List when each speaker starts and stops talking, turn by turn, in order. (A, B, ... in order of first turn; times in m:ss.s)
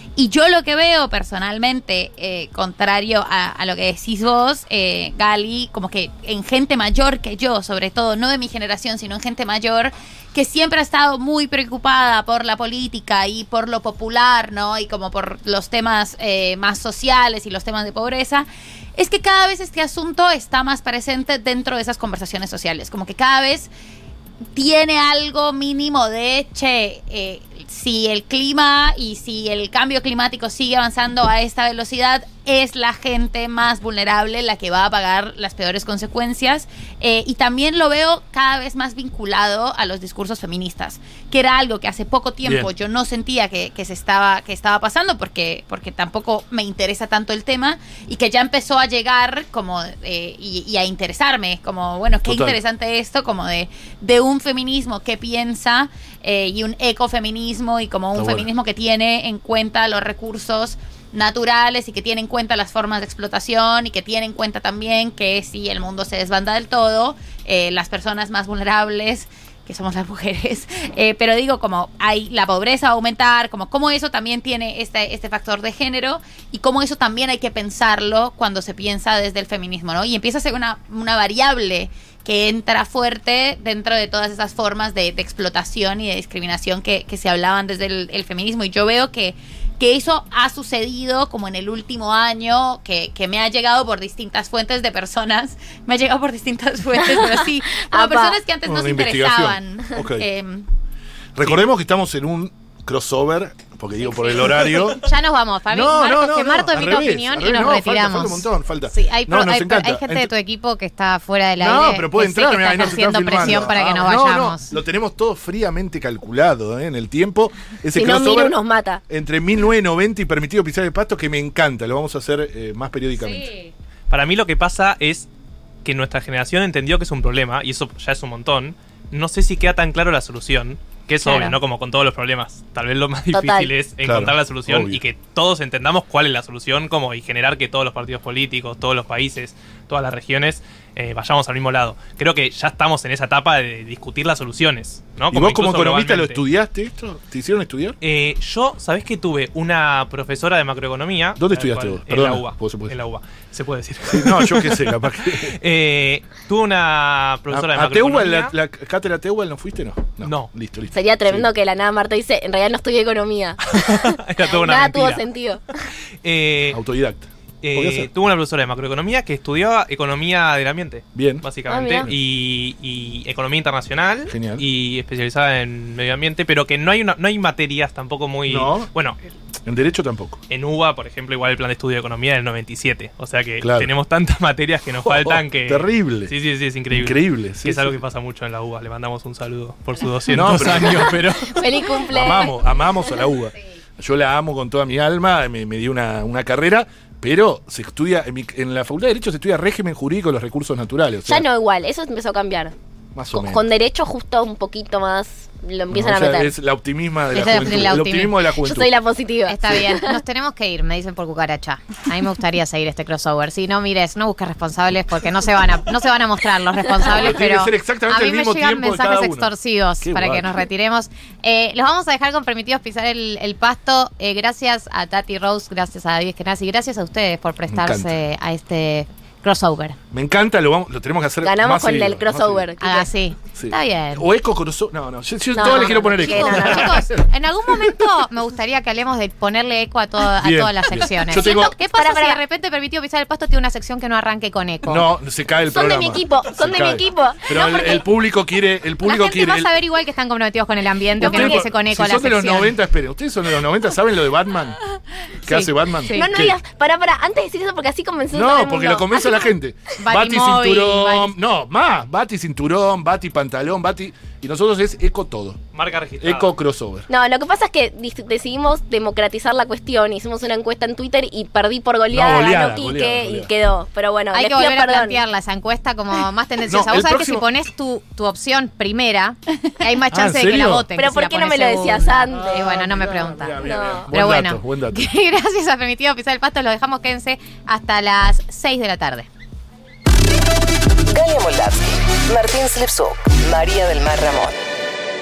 0:00.2-0:23.7 A
0:24.5-1:40.7 A
0:42.4-0:42.7 B
0:52.2-0:52.6 B
0:58.2-0:58.5 B
1:37.1-1:38.4 C
1:38.6-1:40.3 B
1:41.4-1:45.0 B
1:44.9-1:54.6 D
1:45.7-1:50.3 B
1:51.6-1:58.6 B
1:57.9-1:59.0 C
1:59.1-2:03.5 B
2:04.1-2:05.3 E
2:05.8-2:26.4 E
2:11.2-2:11.6 D
2:13.3-2:13.7 C
2:14.0-2:15.0 B
2:25.3-2:28.0 B
2:28.0-2:38.5 E
2:31.4-2:32.9 B
2:34.0-2:35.6 B
2:37.5-2:41.5 B
2:40.2-2:40.5 E
2:40.9-2:45.7 C
2:43.7-2:45.2 E
2:46.2-2:46.8 E
2:46.7-2:48.1 B
2:47.6-2:59.2 E
2:51.1-2:51.4 B
2:51.7-2:52.1 C
2:54.3-2:54.6 B
2:58.5-2:58.9 B
2:59.6-3:00.4 B
3:00.5-3:11.5 E
3:03.6-3:03.9 B
3:05.0-3:06.3 B
3:06.9-3:08.0 B
3:10.3-3:11.5 B
3:10.7-3:12.6 C
3:12.1-3:21.4 B
3:21.2-3:22.7 C
3:23.1-3:23.6 B
3:23.3-3:26.5 C
3:25.9-3:28.9 B
3:27.3-3:28.3 D
3:28.6-3:30.2 C
3:29.5-3:50.0 D
3:37.0-3:40.5 B
3:47.7-3:48.2 B
3:50.1-3:52.6 B
3:51.4-3:53.0 C
3:52.8-3:54.2 D
3:53.5-3:58.0 B
3:55.5-3:57.0 C
3:55.6-4:05.0 D
4:00.4-4:01.7 B
4:01.3-4:02.4 C
4:04.8-4:09.7 B
4:05.7-4:07.9 C
4:09.0-4:12.7 D
4:11.2-4:14.8 B
4:11.2-4:11.6 C
4:15.4-4:16.3 D
4:15.4-4:16.6 B
4:16.1-4:19.5 C
4:18.3-4:25.6 B
4:20.0-4:21.3 D
4:25.7-4:26.5 E
4:26.2-4:27.0 B
4:27.1-4:35.2 C
4:32.1-4:33.5 B
4:34.3-4:43.6 D
4:36.7-4:37.4 B
4:40.1-4:40.9 B
4:41.0-4:42.6 C
4:42.3-4:45.0 B
4:43.6-4:44.1 C
4:44.1-4:49.3 D
4:51.0-4:54.6 F